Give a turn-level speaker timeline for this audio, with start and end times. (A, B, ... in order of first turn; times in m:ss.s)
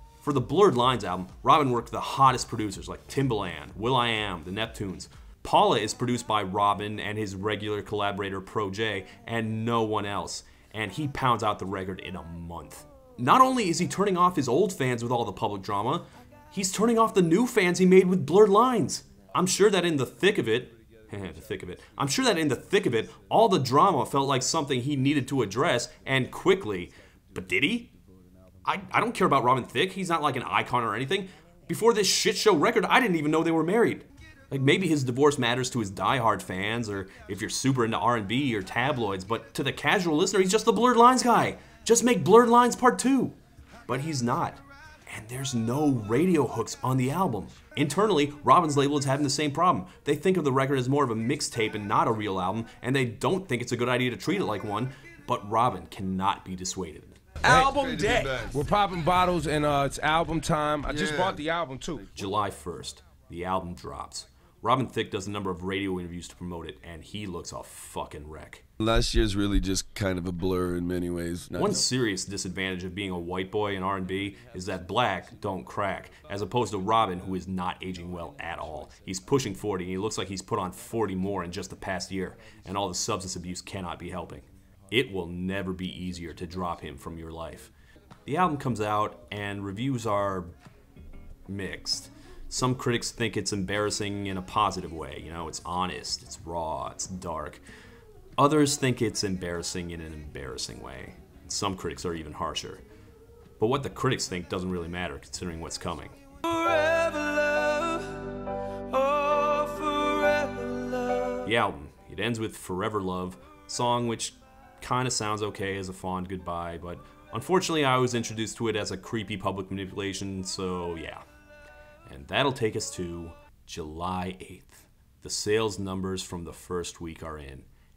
0:00.2-0:27.9 A
0:28.6-0:43.4 A
0:43.9-0:57.2 A
0:57.4-1:02.0 B
0:57.4-0:58.6 C
1:00.9-1:01.4 C
1:02.1-1:08.6 A
1:08.8-1:11.8 C
1:11.5-1:27.7 A
1:28.2-1:30.5 A
1:31.5-1:37.6 A
1:38.4-1:42.8 A
1:43.6-1:46.2 A
1:46.4-1:51.5 D
1:51.4-2:01.2 A
2:02.1-2:07.7 A